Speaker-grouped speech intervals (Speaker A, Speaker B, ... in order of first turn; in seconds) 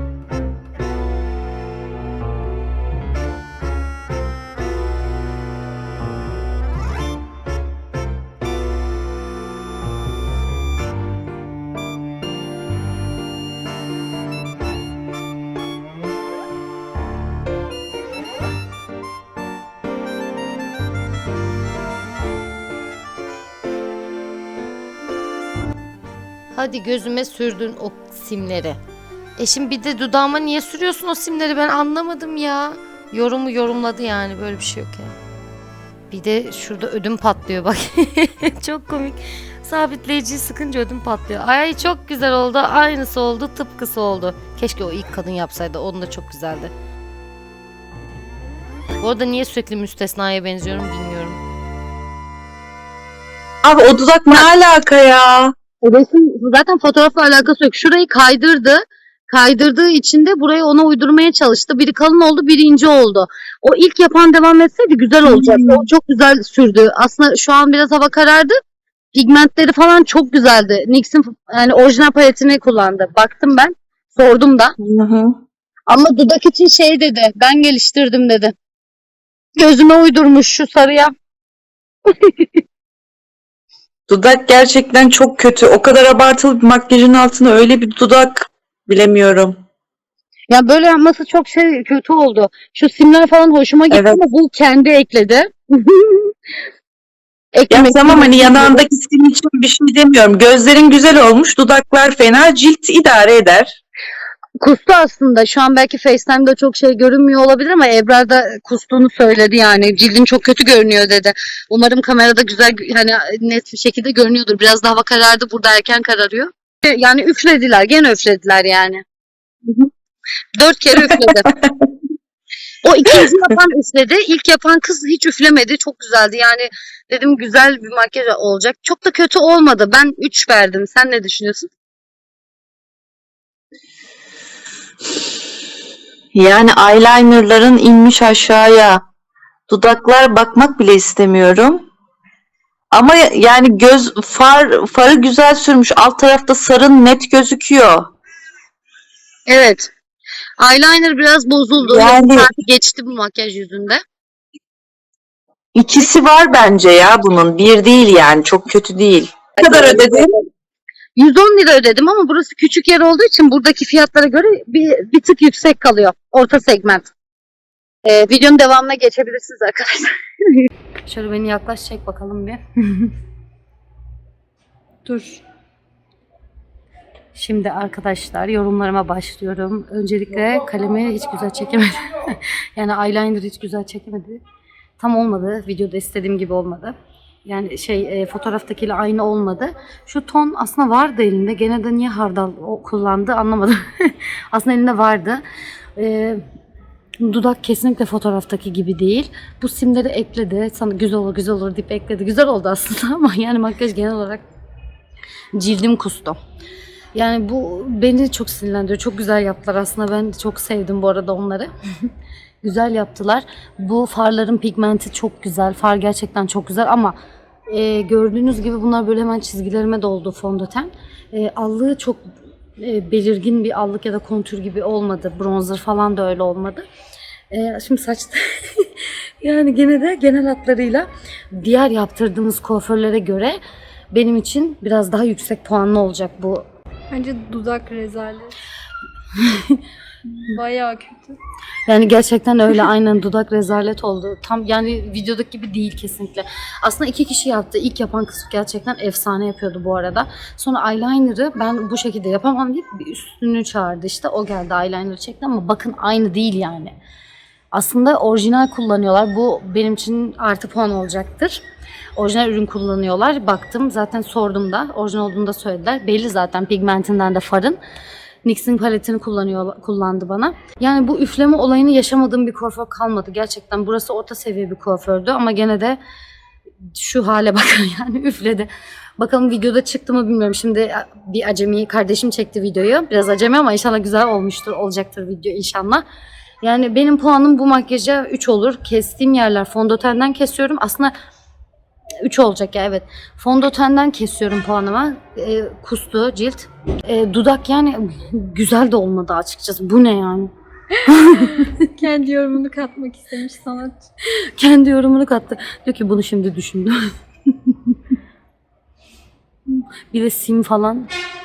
Speaker A: 26.5-28.8, 29.4-35.1, 36.1-46.7, 49.0-51.4, 55.8-68.5, 69.1-74.8, 75.9-78.5, 79.6-81.1, 82.1-82.6, 90.5-96.3, 97.5-98.8, 104.6-119.0, 120.6-121.5, 122.8-131.7, 149.5-149.9, 150.6-154.0, 159.7-160.0, 161.2-167.1, 168.1-170.1, 171.1-173.1, 177.3-184.4, 185.0-186.9, 187.4-195.4, 196.0-196.4, 197.2-204.4, 205.6-206.4, 207.1-211.7, 212.6-217.2, 217.7-226.8, 227.5-233.6, 234.1-236.7, 239.4-239.8, 241.9-256.9, 257.7-261.6, 262.2-267.8, 268.4-276.0, 276.9-286.0, 286.6-291.1, 292.2-300.5, 301.1-301.7, 304.6-307.0, 307.5-308.0, 310.1-311.1
Speaker B: 53.6-55.5, 65.2-65.8, 74.8-75.4, 84.1-89.6, 93.9-94.2, 97.7-103.8, 121.1-121.9, 136.3-139.0, 139.7-141.8, 142.9-148.1, 151.8-152.5, 155.8-160.3
Speaker C: 175.1-175.4, 237.1-238.6, 240.3-241.4, 301.3-304.1